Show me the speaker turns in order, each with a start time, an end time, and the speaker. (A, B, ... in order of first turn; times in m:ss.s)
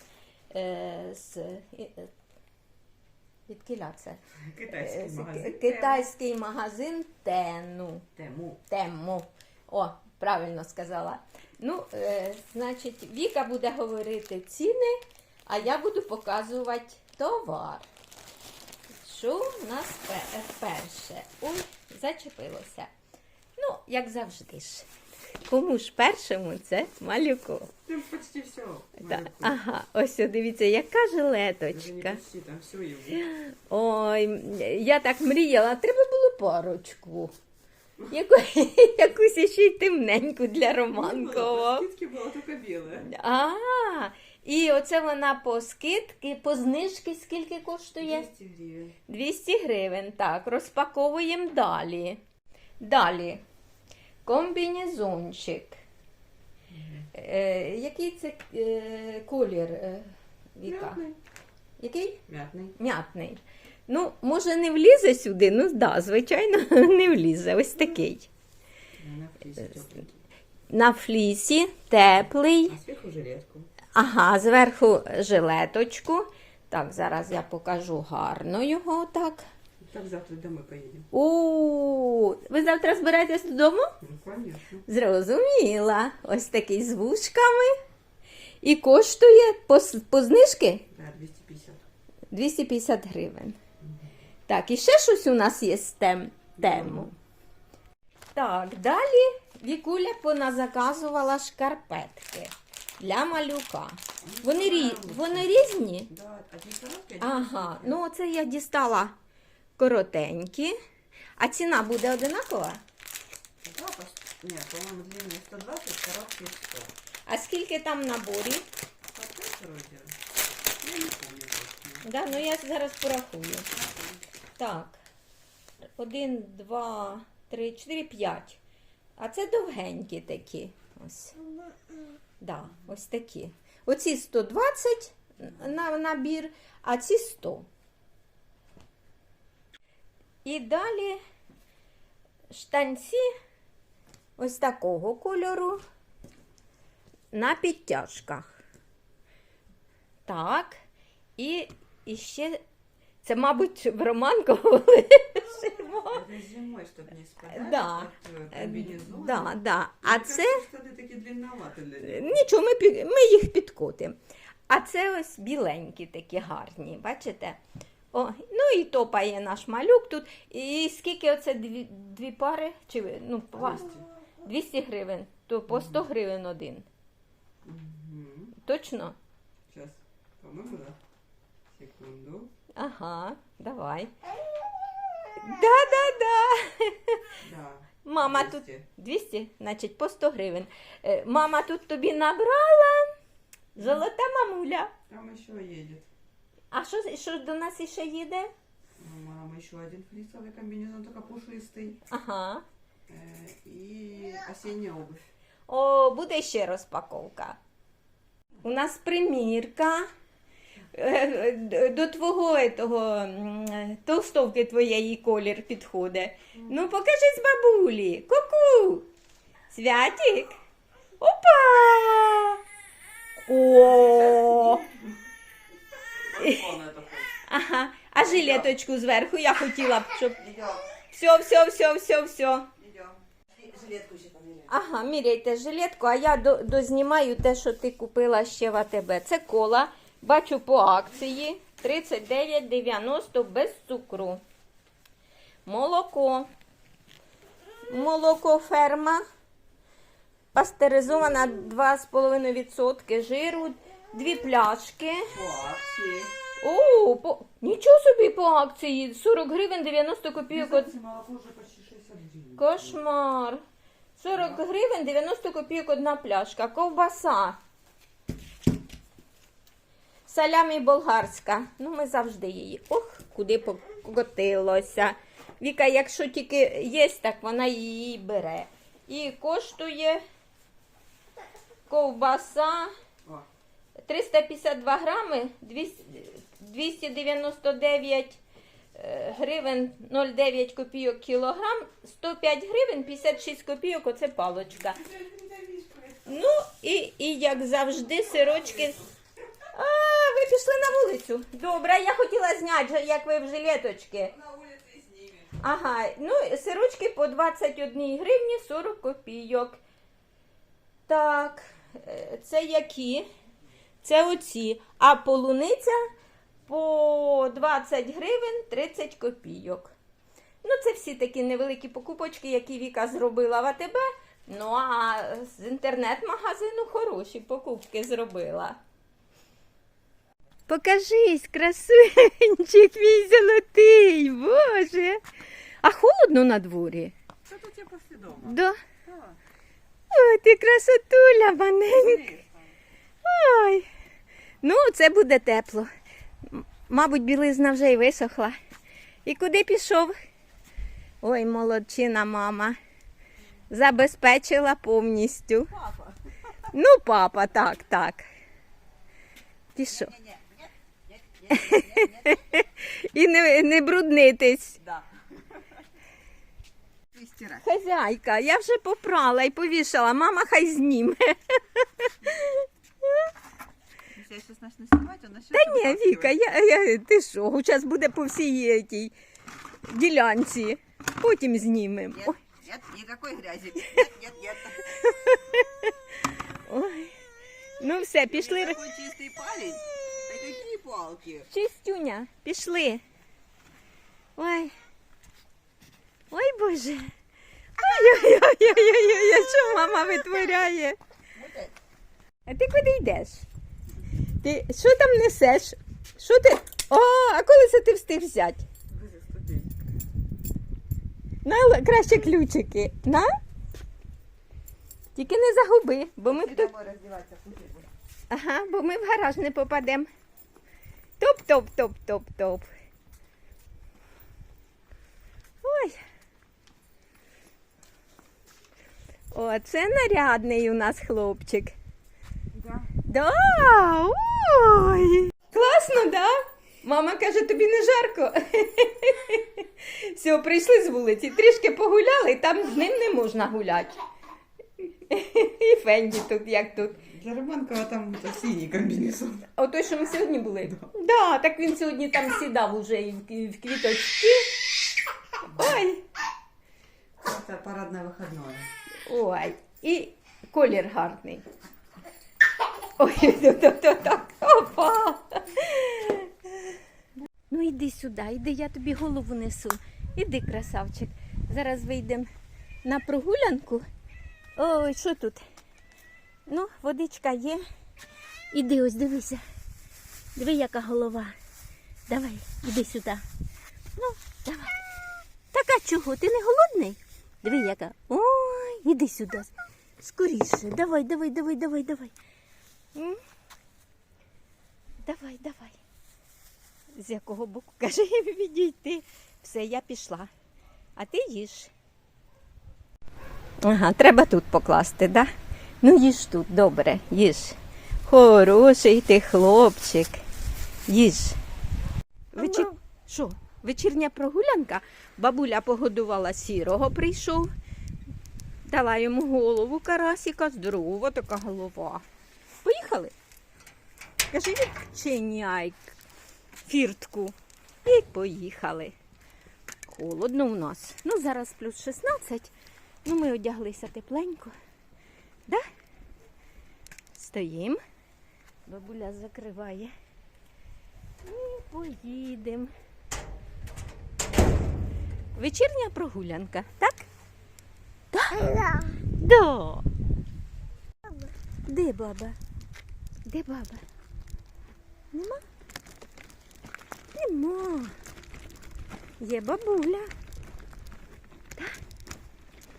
0:00.5-0:02.1 A
0:03.5-0:08.1 A
0:04.5-0:06.1 B
0:08.2-0:08.6 B
0:08.7-0:17.8 A
0:19.0-0:22.9 A
0:23.6-0:24.9 A
0:25.4-0:27.7 A
0:27.9-0:29.6 B
0:29.0-0:32.2 A
0:31.7-0:33.2 B
0:33.2-0:37.3 A
0:38.1-0:41.9 A
0:40.9-0:43.1 B
0:43.0-0:48.3 A
0:48.0-0:49.0 B
0:49.1-0:52.2 A
0:52.8-0:53.4 A
0:54.2-0:55.8 A
0:56.7-0:57.1 B
0:57.1-1:01.0 A
1:00.6-1:01.2 B
1:01.8-1:02.2 A
1:02.3-1:02.8 B
1:02.8-1:08.3 A
1:09.0-1:10.2 B
1:10.7-1:12.8 A
1:12.7-1:13.7 B
1:14.0-1:19.4 A
1:19.8-1:21.1 B
1:21.1-1:23.9 A
1:24.0-1:24.8 B
1:24.9-1:27.8 A
1:28.6-1:30.9 A
1:30.9-1:31.8 B
1:32.3-1:33.6 A
1:33.8-1:34.1 B
1:34.5-1:37.1 A
1:36.6-1:37.2 B
1:38.4-1:46.1 A
1:44.2-1:48.0 B
1:47.2-1:49.2 A
1:49.8-1:50.8 A
1:51.4-1:52.8 A
1:53.6-1:57.0 B
1:57.3-1:58.7 A
1:59.1-2:00.2 B
2:00.8-2:02.2 B
2:02.0-2:03.7 A
2:03.7-2:04.3 B
2:04.6-2:05.0 A
2:06.0-2:08.6 A
2:09.2-2:11.4 A
2:12.4-2:17.7 A
2:20.4-2:21.2 A
2:22.5-2:23.3 A
2:24.4-2:25.8 A
2:27.3-2:28.6 A
2:30.3-2:30.8 A
2:31.4-2:32.6 A
2:33.2-2:36.2 A
2:35.9-2:42.4 B
2:37.5-2:40.6 A
2:42.0-2:44.2 A
2:44.7-2:47.6 A
2:48.1-2:56.9 A
2:53.6-2:54.0 B
2:55.7-2:56.1 B
2:57.6-2:58.6 B
2:58.6-2:59.2 A
2:59.7-3:01.0 B
3:01.7-3:02.5 B
3:02.8-3:04.1 A
3:05.4-3:07.4 A
3:07.4-3:08.9 B
3:08.0-3:13.1 A
3:13.8-3:14.9 A
3:13.8-3:14.1 B
3:15.1-3:16.1 B
3:16.7-3:18.5 A
3:19.0-3:22.0 B
3:22.1-3:22.6 A
3:23.1-3:25.3 B
3:25.7-3:27.6 A
3:28.6-3:30.1 A
3:30.9-3:39.1 A
3:39.7-3:40.6 A
3:41.2-3:42.6 A
3:43.4-3:44.9 A
3:43.8-3:45.1 B
3:46.2-3:47.4 B
3:46.4-3:46.7 A
3:47.5-3:50.5 A
3:48.2-3:48.7 B
3:50.4-3:50.9 B
3:51.1-3:52.7 A
3:52.8-3:54.7 B
3:54.7-4:04.4 A
4:05.7-4:06.5 A
4:07.9-4:09.2 A
4:10.5-4:15.4 A
4:15.3-4:16.3 B
4:16.6-4:20.9 A
4:20.5-4:23.0 B
4:22.6-4:23.6 A
4:24.2-4:27.6 A
4:24.3-4:24.6 B
4:30.3-4:40.2 A
4:41.9-4:42.9 A
4:44.0-4:48.4 A
4:49.0-4:55.0 A
4:54.8-4:56.5 B
4:56.3-4:59.1 A
4:58.5-4:59.1 B
4:59.7-5:04.4 A
5:04.4-5:05.5 B
5:05.6-5:09.8 A
5:11.1-5:13.3 A
5:14.0-5:16.1 A
5:16.7-5:20.0 A
5:20.6-5:28.8 A
5:30.7-5:35.2 A
5:35.8-5:37.1 A
5:37.5-5:39.4 B
5:38.4-5:38.8 A
5:40.1-5:42.3 A
5:41.9-5:42.7 B
5:43.2-5:43.9 A
5:44.6-5:45.9 A
5:46.4-5:48.6 A
5:49.2-5:50.1 A
5:51.2-5:52.8 A
5:53.7-5:55.8 A
5:55.8-5:56.1 B
5:56.7-5:58.2 A
5:59.8-6:00.2 A
6:00.1-6:00.7 B
6:01.2-6:02.3 B
6:01.5-6:04.8 A
6:07.1-6:07.6 B
6:07.6-6:13.3 A
6:14.1-6:16.4 B
6:15.5-6:19.1 A
6:19.9-6:22.4 A
6:22.2-6:24.8 B
6:24.8-6:27.1 A
6:27.8-6:28.8 A
6:28.3-6:31.5 B
6:31.5-6:33.0 A
6:34.4-6:34.7 A
6:36.3-6:37.1 A
6:37.8-6:41.0 A
6:41.4-6:41.7 B
6:42.5-6:43.5 A
6:44.4-6:48.7 A
6:48.9-6:49.8 B
6:51.4-6:53.3 A
6:55.2-6:56.7 A
6:56.3-6:57.9 B
6:58.3-7:00.1 A
7:01.2-7:02.7 A
7:05.6-7:06.0 A
7:09.3-7:11.8 A
7:13.0-7:24.0 A
7:25.1-7:27.1 A
7:27.0-7:29.5 B
7:29.5-7:34.5 A
7:35.4-7:36.0 A
7:35.5-7:35.8 B
7:37.2-7:38.7 B
7:39.1-7:41.4 A
7:43.0-7:46.8 A
7:47.5-7:52.3 A
7:52.8-7:53.8 A
7:54.6-7:55.4 A
7:56.5-7:57.6 A
7:58.5-7:59.4 A
8:00.4-8:01.3 A
8:02.1-8:03.2 A
8:04.0-8:04.8 A
8:05.5-8:12.1 A
8:12.9-8:13.2 A
8:15.0-8:15.8 A
8:17.0-8:20.3 A
8:21.0-8:21.7 A
8:23.6-8:25.3 A
8:25.8-8:30.2 A
8:30.9-8:31.4 A
8:32.3-8:37.5 A
8:32.4-8:32.7 B
8:38.6-8:42.0 A
8:42.6-8:43.1 A
8:44.3-8:46.0 A
8:46.6-8:48.9 A
8:49.9-8:52.5 A
8:53.0-8:54.5 A
8:57.2-8:57.8 A
8:58.7-8:59.9 A
9:01.2-9:02.7 A
9:05.4-9:07.1 A
9:08.1-9:09.9 A
9:11.7-9:12.4 A
9:13.3-9:13.8 A
9:15.1-9:15.4 A
9:17.2-9:17.9 A
9:19.2-9:20.1 A